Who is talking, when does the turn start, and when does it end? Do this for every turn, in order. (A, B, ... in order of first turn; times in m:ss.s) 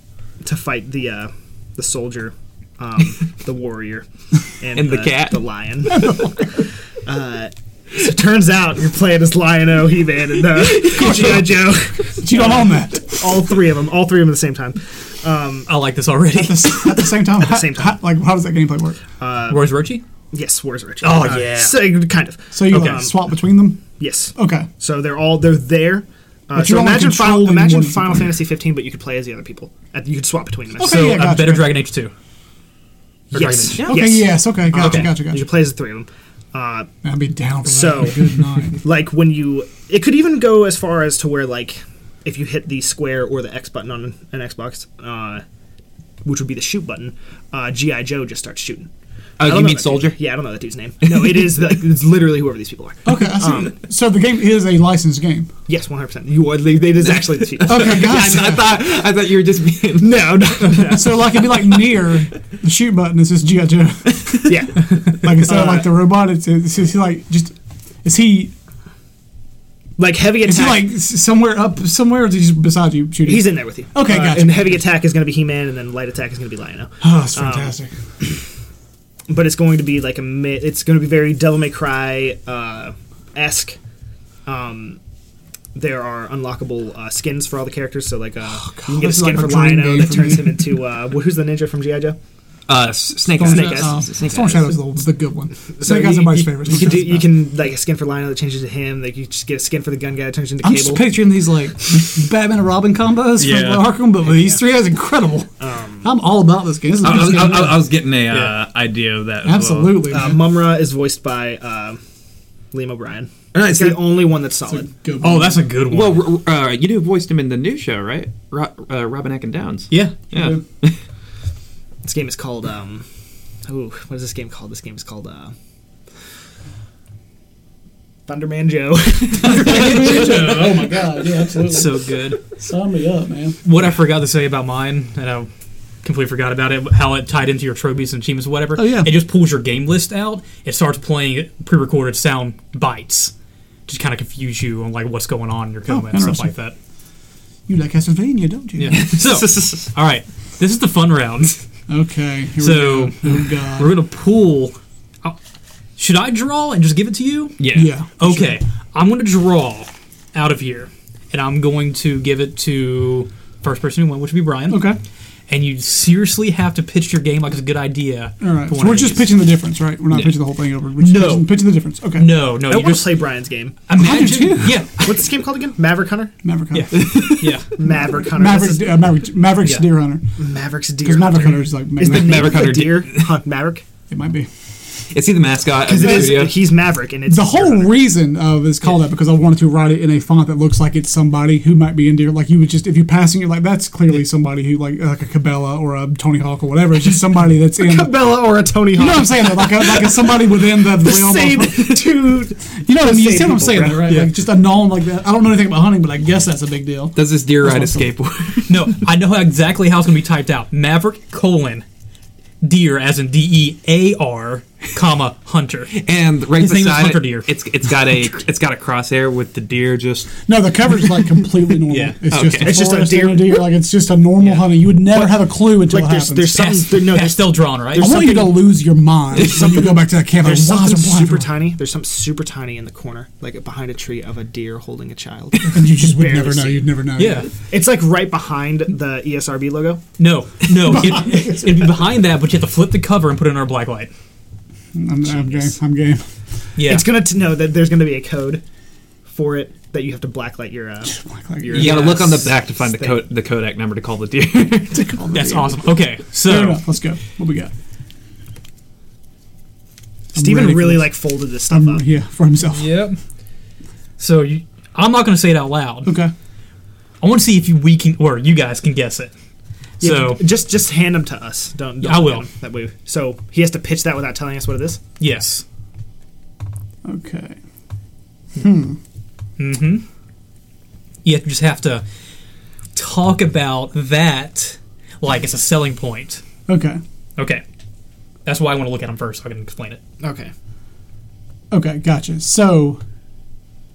0:00.4-0:15.7 A
0:04.7-0:05.4 B
0:10.8-0:11.6 C
0:12.2-0:13.5 C
0:15.7-0:17.2 D
0:16.3-0:19.0 C
0:17.4-0:18.0 A
0:19.2-0:19.7 A
0:19.5-0:20.0 D
0:20.3-0:23.3 A
0:21.0-0:21.9 D
0:22.5-0:24.7 C
0:24.0-0:31.2 A
0:26.6-0:28.3 C
0:30.8-0:31.8 C
0:30.8-0:32.1 D
0:33.3-0:36.9 A
0:33.3-0:33.9 D
0:33.8-0:34.2 B
0:33.9-0:35.5 C
0:34.8-0:35.1 D
0:37.0-0:38.8 C
0:37.7-0:45.4 A
0:46.2-0:48.9 A
0:49.4-0:50.2 B
0:49.4-0:53.8 A
0:53.0-0:55.5 C
0:55.7-0:58.8 A
0:57.6-1:00.7 B
0:57.7-0:58.7 C
1:00.0-1:01.4 A
1:00.8-1:04.5 C
1:04.5-1:05.9 A
1:05.1-1:08.5 C
1:10.0-1:10.9 A
1:10.4-1:14.8 C
1:13.3-1:17.7 A
1:17.0-1:17.9 C
1:19.3-1:23.8 A
1:24.5-1:25.0 A
1:25.8-1:32.2 A
1:28.6-1:30.8 C
1:32.7-1:34.8 B
1:33.3-1:37.3 C
1:33.4-1:34.0 A
1:35.7-1:41.1 A
1:40.6-1:48.0 C
1:43.4-1:44.0 B
1:45.6-1:46.1 A
1:47.0-1:50.2 B
1:48.3-1:48.6 D
1:49.4-1:50.4 C
1:50.1-1:52.0 A
1:52.7-1:54.9 A
1:53.5-1:54.1 B
1:54.7-1:55.7 C
1:55.2-1:56.2 D
1:55.9-2:01.0 B
1:59.9-2:00.2 D
2:00.3-2:00.6 C
2:02.0-2:03.0 A
2:03.7-2:05.5 A
2:08.3-2:10.7 A
2:09.4-2:13.6 C
2:09.6-2:10.8 D
2:11.7-2:12.4 D
2:13.6-2:15.5 D
2:16.0-2:23.3 D
2:18.8-2:19.1 C
2:23.9-2:26.8 D
2:25.9-2:26.5 C
2:27.7-2:29.0 C
2:28.8-2:31.6 D
2:28.9-2:29.9 B
2:31.9-2:34.0 C
2:32.6-2:35.4 D
2:36.0-2:44.9 D
2:37.6-2:37.9 B
2:37.7-2:38.6 C
2:44.7-2:45.0 C
2:45.5-2:49.4 D
2:48.4-2:52.3 C
2:51.0-2:51.6 D
2:52.1-2:53.2 D
2:52.6-2:53.8 A
2:53.9-2:55.1 D
2:54.0-2:54.9 C
2:55.0-2:56.4 A
2:56.4-2:57.3 C
2:56.7-2:57.7 D
2:56.9-2:57.6 B
2:57.8-2:59.0 A
2:57.8-3:00.3 C
3:00.4-3:03.8 A
3:01.0-3:02.7 C
3:02.0-3:03.4 B
3:04.1-3:04.5 C
3:05.1-3:06.6 B
3:05.8-3:07.9 A
3:06.0-3:06.5 C
3:07.3-3:18.4 C
3:17.8-3:24.2 A
3:18.9-3:22.0 C
3:22.8-3:28.1 C
3:27.2-3:29.0 B
3:28.7-3:31.8 D
3:32.6-3:36.0 D
3:36.0-3:40.4 B
3:36.6-3:37.5 D
3:40.5-3:46.6 C
3:41.9-3:42.2 D
3:42.3-3:42.8 B
3:42.6-3:43.7 A
3:45.1-3:48.4 A
3:46.5-3:48.5 D
3:48.0-3:51.5 C
3:49.5-3:56.9 A
3:55.7-3:57.5 C
3:57.2-3:57.5 D
3:57.7-4:00.0 A
4:00.2-4:04.1 D
4:00.8-4:01.9 C
4:05.0-4:06.2 C
4:05.3-4:05.7 A
4:06.8-4:07.1 D
4:06.8-4:08.6 A
4:09.3-4:13.2 A
4:11.1-4:12.0 C
4:11.7-4:15.2 B
4:11.8-4:12.1 D
4:14.9-4:15.8 C
4:15.3-4:16.8 D
4:16.4-4:17.7 C
4:20.3-4:21.2 C
4:20.3-4:22.0 A
4:21.7-4:23.0 C
4:22.7-4:23.2 D
4:24.2-4:26.2 D
4:26.1-4:26.3 C
4:27.2-4:29.3 D
4:30.0-4:30.4 D
4:30.0-4:35.0 A
4:32.0-4:32.5 D
4:35.2-4:35.6 D
4:37.0-4:37.6 C
4:38.6-4:39.0 C
4:39.6-4:40.0 D
4:41.2-4:42.0 D
4:43.0-4:46.4 D
4:46.7-4:47.0 C
4:47.4-4:47.6 D
4:48.5-4:50.0 D
4:50.2-4:50.5 A
4:51.7-4:53.0 C